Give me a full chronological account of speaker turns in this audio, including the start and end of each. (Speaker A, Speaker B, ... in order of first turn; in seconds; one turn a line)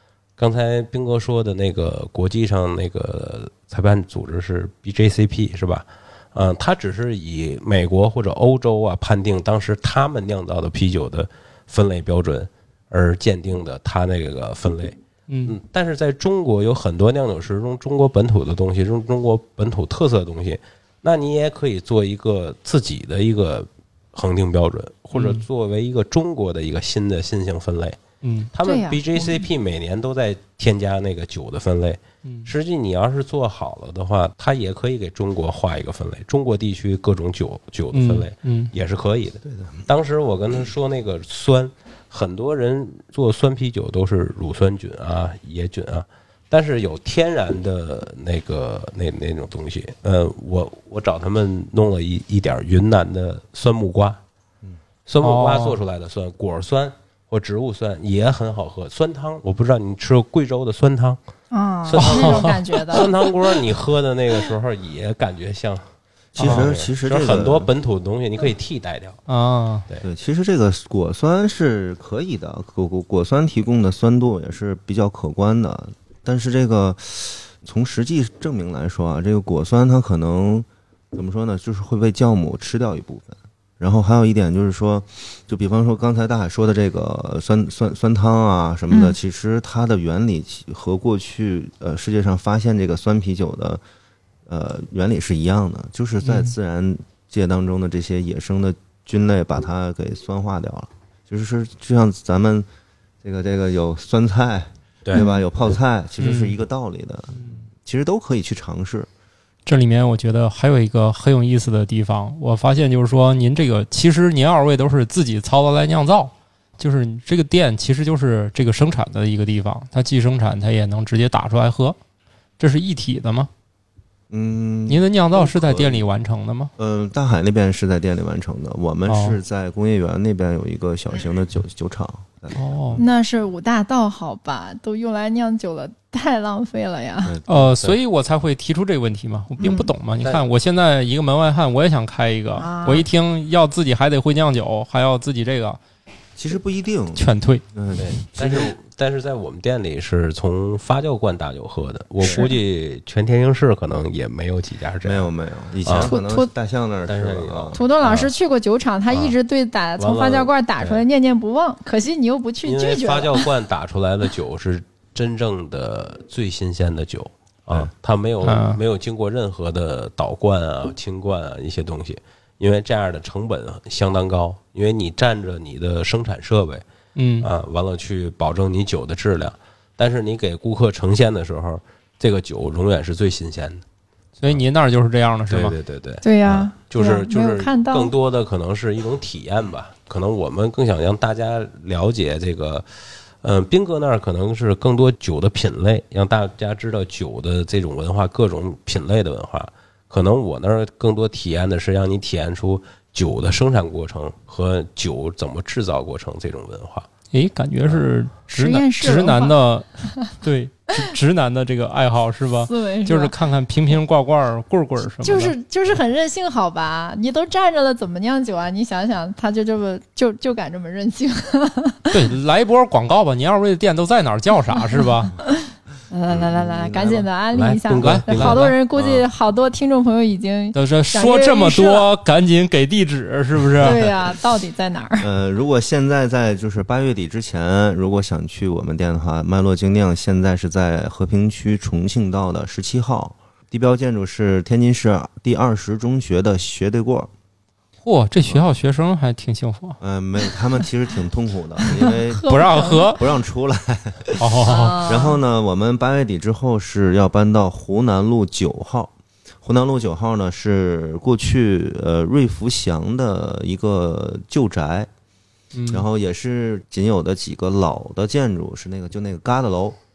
Speaker A: 0.4-28.0
Speaker B: 15.3-15.6
Speaker B: 25.1-25.4
Speaker B: 28.2-28.5
Speaker A: 28.5-54.2
Speaker C: 28.6-29.4
Speaker B: 32.2-32.5
Speaker B: 37.9-38.7
Speaker D: 39.5-39.8
Speaker A: 55.0-61.2
Speaker B: 55.2-55.8
Speaker C: 61.5-63.1
Speaker A: 61.8-65.8
Speaker B: 62.0-62.6
Speaker D: 66.3-67.7
Speaker B: 66.4-66.7
Speaker A: 66.4-69.2
Speaker B: 69.3-69.8
Speaker D: 70.0-93.8
Speaker C: 88.9-89.1
Speaker D: 94.5-102.7
Speaker B: 96.2-96.5
Speaker D: 103.2-109.1
Speaker B: 106.2-106.5
Speaker B: 109.7-122.0
Speaker B: 122.6-123.5
Speaker D: 124.3-126.1
Speaker B: 124.9-126.7
Speaker D: 126.8-133.0
Speaker B: 129.1-129.4
Speaker B: 132.5-133.0
Speaker C: 133.0-137.3
Speaker D: 137.2-137.7
Speaker B: 137.5-145.8
Speaker C: 139.6-139.9
Speaker C: 142.6-143.1
Speaker D: 146.3-148.7
Speaker B: 147.2-147.6
Speaker A: 147.9-155.3
Speaker C: 152.2-152.5
Speaker D: 155.0-157.8
Speaker A: 155.8-156.1
Speaker C: 156.0-156.5
Speaker A: 157.1-158.3
Speaker C: 157.7-163.5
Speaker A: 159.1-159.3
Speaker A: 160.0-161.0
Speaker A: 162.6-176.8
Speaker B: 168.4-168.8
Speaker B: 177.1-177.5
Speaker A: 177.4-183.8
Speaker B: 184.4-185.7
Speaker A: 185.5-192.8
Speaker C: 186.2-188.1
Speaker A: 193.4-207.1
Speaker B: 207.3-209.8
Speaker C: 208.5-209.6
Speaker B: 210.4-215.5
Speaker C: 212.6-213.3
Speaker C: 215.2-222.2
Speaker B: 222.1-225.3
Speaker C: 225.0-232.1
Speaker D: 226.3-227.3
Speaker A: 227.5-229.2
Speaker B: 228.0-228.7
Speaker B: 230.7-234.0
Speaker C: 233.8-235.3
Speaker D: 235.2-247.3
Speaker B: 248.0-250.0
Speaker D: 250.0-265.1
Speaker C: 252.0-253.2
Speaker B: 252.5-253.2
Speaker B: 254.4-255.0
Speaker C: 254.6-255.4
Speaker B: 265.7-266.1
Speaker D: 265.9-270.0